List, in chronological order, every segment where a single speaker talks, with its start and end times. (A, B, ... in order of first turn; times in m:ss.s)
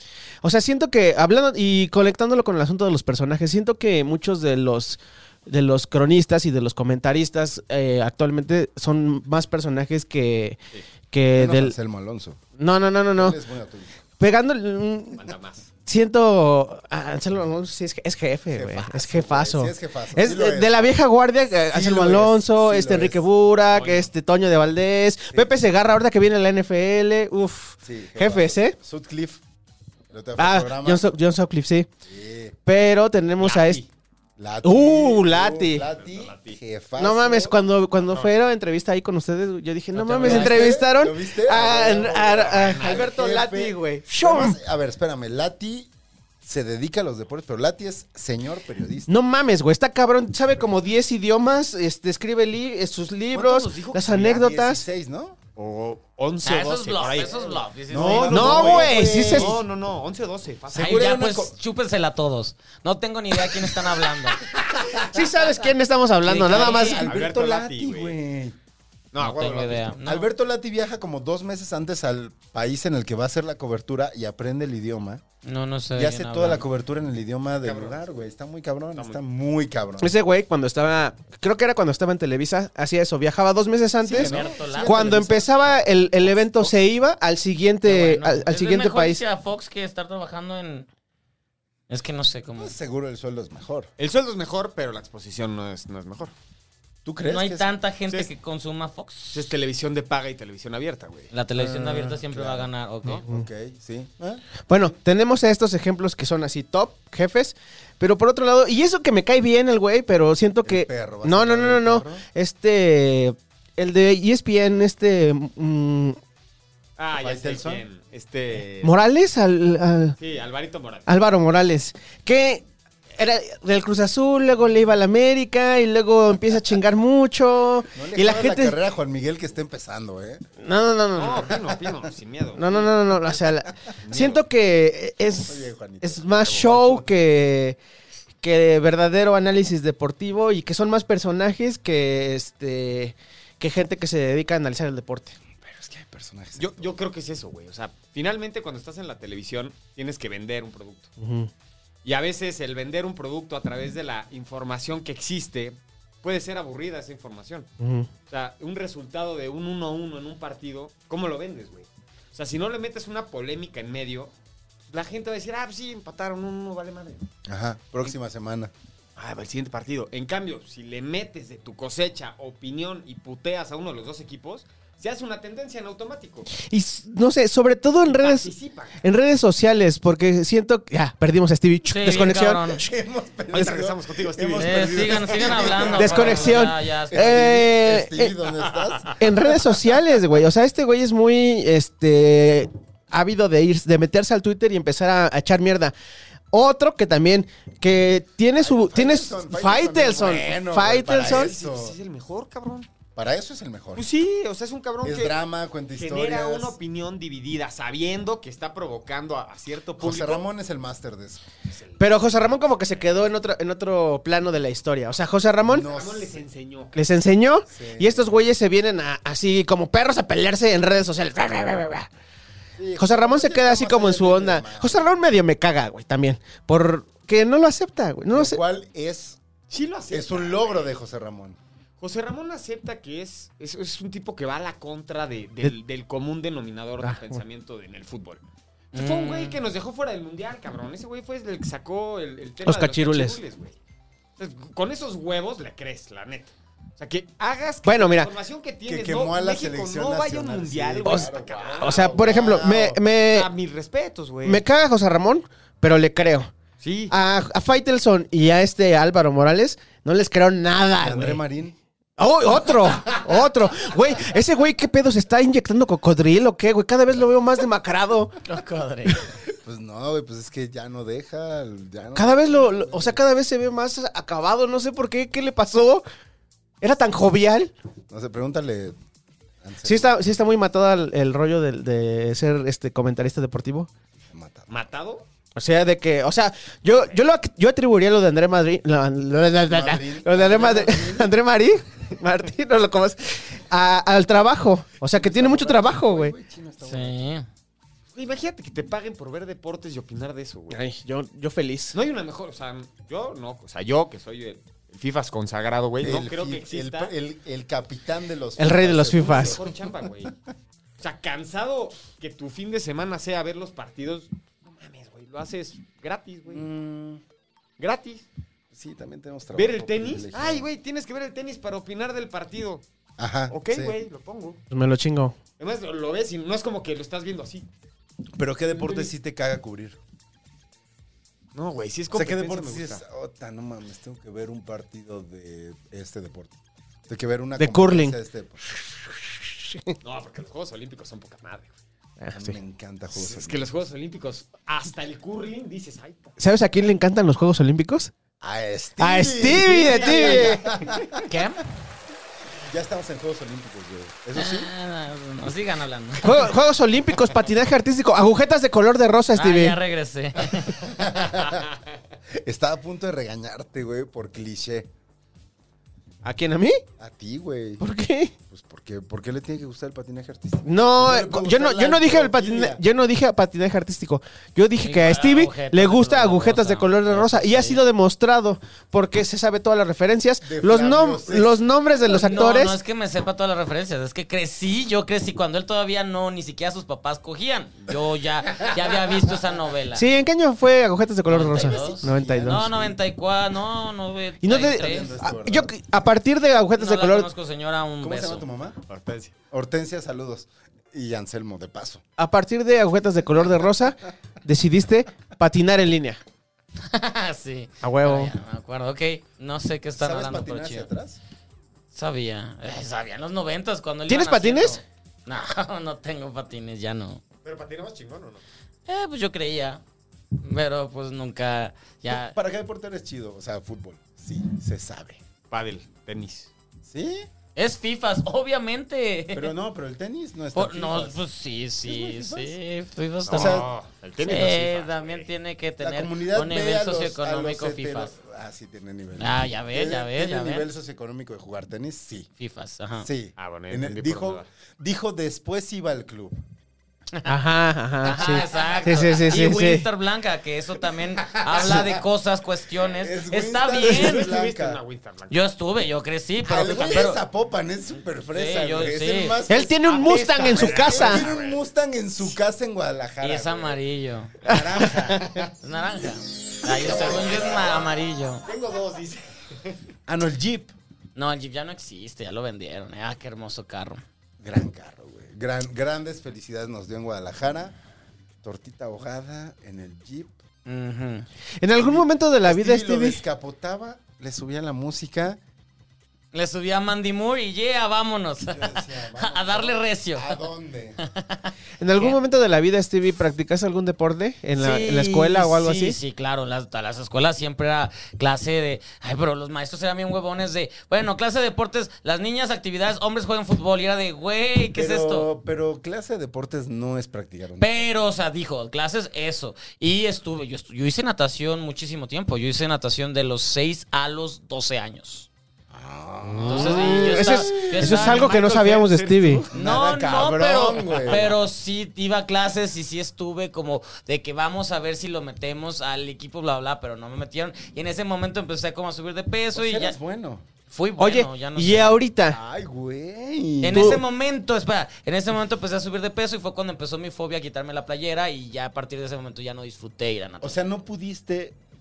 0:00.4-0:11.8 A
0:11.3-0:12.4 B
0:12.6-0:13.4 A
0:13.1-0:14.0 B
0:14.2-0:15.3 A
0:15.1-0:15.7 C
0:15.9-0:28.8 A
0:18.5-0:21.0 B
0:21.7-0:23.2 B
0:23.7-0:24.1 C
0:27.8-0:29.4 B
0:30.1-0:31.1 B
0:30.4-0:31.9 A
0:32.0-0:32.6 B
0:32.7-0:33.8 A
0:33.4-0:33.9 C
0:34.4-0:37.6 B
0:34.6-0:35.9 A
0:35.9-0:36.6 C
0:37.0-0:44.6 A
0:38.0-0:38.4 C
0:40.0-0:40.8 D
0:40.2-0:45.9 B
0:42.3-0:43.2 C
0:46.4-0:49.1 B
0:49.1-0:54.8 A
0:53.3-0:54.4 C
0:54.1-0:55.4 B
0:55.6-1:01.1 C
0:56.4-0:58.6 D
0:57.9-0:59.6 B
0:58.3-0:59.6 A
1:00.7-1:01.5 B
1:00.8-1:04.5 D
1:04.5-1:05.1 C
1:05.1-1:07.1 A
1:06.2-1:07.1 D
1:06.4-1:08.2 C
1:06.5-1:08.6 B
1:09.1-1:10.0 C
1:09.2-1:10.3 D
1:09.2-1:15.2 B
1:15.4-1:16.6 D
1:16.0-1:20.1 B
1:17.6-1:18.3 C
1:19.0-1:19.2 C
1:20.0-1:29.2 A
1:24.0-1:26.8 B
1:24.1-1:25.3 D
1:27.8-1:30.9 D
1:31.9-1:32.7 D
1:32.6-1:33.9 B
1:34.0-1:36.3 C
1:37.0-1:37.7 B
1:37.3-1:39.4 D
1:39.3-1:41.3 C
1:41.3-1:43.2 D
1:41.6-1:44.4 B
1:44.7-1:56.2 A
1:50.6-1:52.2 B
1:57.0-1:59.0 C
1:57.1-1:57.8 B
1:58.8-2:00.2 A
2:00.2-2:01.1 C
2:01.1-2:02.6 A
2:03.2-2:08.8 A
2:07.9-2:10.4 B
2:10.6-2:11.6 A
2:11.2-2:13.4 C
2:12.6-2:17.8 A
2:14.0-2:14.4 C
2:15.3-2:17.0 B
2:16.4-2:16.7 C
2:18.4-2:25.4 A
2:25.6-2:27.0 B
2:26.6-2:31.1 C
2:31.2-2:31.5 A
2:32.0-2:37.7 C
2:37.8-2:38.1 A
2:38.3-2:44.3 C
2:44.9-2:47.3 C
2:47.5-2:48.7 B
2:49.2-2:56.5 C
2:56.6-3:02.7 A
2:58.0-2:59.1 C
3:01.9-3:02.8 D
3:02.6-3:09.2 B
3:03.5-3:06.6 C
3:04.6-3:07.4 D
3:05.9-3:08.3 A
3:08.7-3:09.1 C
3:09.2-3:15.9 A
3:16.5-3:21.5 A
3:18.6-3:22.0 B
3:21.0-3:22.9 C
3:23.2-3:24.1 B
3:24.0-3:25.4 C
3:25.0-3:26.8 B
3:26.0-3:30.5 C
3:30.0-3:31.4 B
3:31.7-3:33.0 C
3:32.0-3:35.9 A
3:35.6-3:36.4 B
3:35.7-3:37.1 C
3:36.9-3:42.1 A
3:37.7-3:38.4 B
3:42.8-3:45.1 B
3:43.0-3:48.6 A
3:48.3-3:49.4 B
3:49.7-3:50.9 C
3:50.1-3:51.6 B
3:52.0-4:03.8 C
3:57.0-3:57.4 A
3:58.9-3:59.6 D
4:02.6-4:03.4 A
4:04.4-4:12.7 C
4:07.8-4:08.3 A
4:08.9-4:13.0 B
4:11.8-4:13.5 A
4:13.2-4:14.6 C
4:14.4-4:16.5 A
4:16.8-4:17.2 C
4:17.1-4:21.4 A
4:21.0-4:21.8 B
4:22.2-4:28.4 A
4:28.4-4:29.2 D
4:29.5-4:33.2 B
4:32.2-4:36.1 A
4:36.8-4:37.7 A
4:38.1-4:39.0 B
4:39.6-4:40.2 B
4:39.8-4:43.9 A
4:44.3-4:44.7 B
4:44.7-4:45.3 C
4:45.6-4:56.4 A
4:49.7-4:51.3 B
4:55.1-4:57.2 B
4:56.8-4:57.5 D
4:58.1-5:00.8 C
5:00.7-5:02.0 A
5:01.9-5:07.1 C
5:06.0-5:09.8 B
5:08.6-5:09.6 A
5:09.2-5:10.3 C
5:11.0-5:16.7 C
5:16.5-5:17.2 B
5:17.8-5:18.3 C
5:18.7-5:20.7 B
5:19.5-5:22.8 C
5:23.2-5:24.0 B
5:23.5-5:24.6 C
5:24.7-5:25.4 A
5:25.6-5:27.7 C
5:28.4-5:30.0 B
5:28.7-5:29.1 C
5:31.6-5:33.0 C
5:32.1-5:38.7 B
5:37.6-5:38.2 A
5:40.0-5:41.8 C
5:42.2-5:42.6 A
5:42.3-5:43.6 B
5:43.1-5:46.3 C
5:46.4-5:48.1 A
5:48.4-5:51.3 B
5:49.0-5:50.8 A
5:49.8-5:50.6 C
5:51.2-5:51.6 D
5:52.6-5:54.7 B
5:54.4-5:56.5 D
5:56.2-5:59.8 A
5:59.4-6:01.0 D
6:00.6-6:01.7 B
6:02.4-6:04.9 B
6:06.2-6:06.8 A
6:07.0-6:07.8 B
6:07.8-6:08.3 A
6:08.5-6:12.8 B
6:10.6-6:22.8 A
6:14.8-6:17.8 D
6:20.4-6:21.6 B
6:22.1-6:30.1 D
6:29.9-6:32.7 A
6:31.3-6:35.1 D
6:31.6-6:33.0 B
6:34.4-6:37.3 A
6:34.6-6:35.7 B
6:36.8-6:38.5 D
6:38.0-6:38.8 B
6:38.9-6:39.3 C
6:39.5-6:42.0 B
6:42.2-6:46.2 A
6:46.9-6:50.9 D
6:47.8-6:48.3 A
6:50.0-6:51.2 B
6:51.9-6:57.2 D
6:54.1-6:54.8 A
6:57.4-6:58.4 C
6:58.9-6:59.8 D
7:00.4-7:02.4 D
7:02.1-7:05.2 B
7:05.5-7:06.5 C
7:06.8-7:07.3 B
7:07.6-7:09.5 D
7:09.3-7:11.2 B
7:10.5-7:13.7 D
7:11.8-7:12.6 B
7:13.3-7:15.3 C
7:13.3-7:13.7 B
7:14.2-7:18.1 D
7:15.8-7:22.3 B
7:19.2-7:20.7 D
7:22.4-7:23.1 D
7:23.0-7:26.4 B
7:23.4-7:24.5 C
7:27.3-7:29.9 A
7:28.0-7:34.4 D
7:28.2-7:29.4 C
7:31.3-7:32.0 B
7:32.8-7:34.8 B
7:33.9-7:35.4 C
7:35.3-7:37.2 D
7:36.4-7:43.8 B
7:36.7-7:37.0 C
7:38.3-7:39.4 D
7:39.5-7:41.3 A
7:39.8-7:41.6 C
7:43.2-7:44.4 D
7:44.4-7:45.5 B
7:44.5-7:45.4 A
7:45.6-7:48.4 D
7:46.6-7:47.8 B
7:48.4-7:49.8 C
7:50.1-7:50.7 B
7:51.2-7:54.0 D
7:54.4-7:57.8 B
7:58.4-8:00.4 B
8:00.7-8:01.3 D
8:01.6-8:03.2 A
8:01.8-8:05.4 B
8:06.3-8:10.4 D
8:08.4-8:11.0 B
8:11.0-8:12.2 D
8:11.8-8:16.0 A
8:14.6-8:25.3 D
8:24.7-8:27.9 B
8:27.6-8:35.3 D
8:35.7-8:38.0 B
8:36.4-8:38.3 D
8:36.5-8:39.4 A
8:36.7-8:37.1 C
8:37.9-8:39.5 C
8:39.5-8:41.4 B
8:39.5-8:50.0 D
8:49.5-8:50.4 B
8:50.7-8:51.9 D
8:51.0-8:52.4 A
8:52.3-8:54.0 B
8:53.6-9:00.6 D
8:53.7-8:54.0 A
9:00.4-9:01.6 B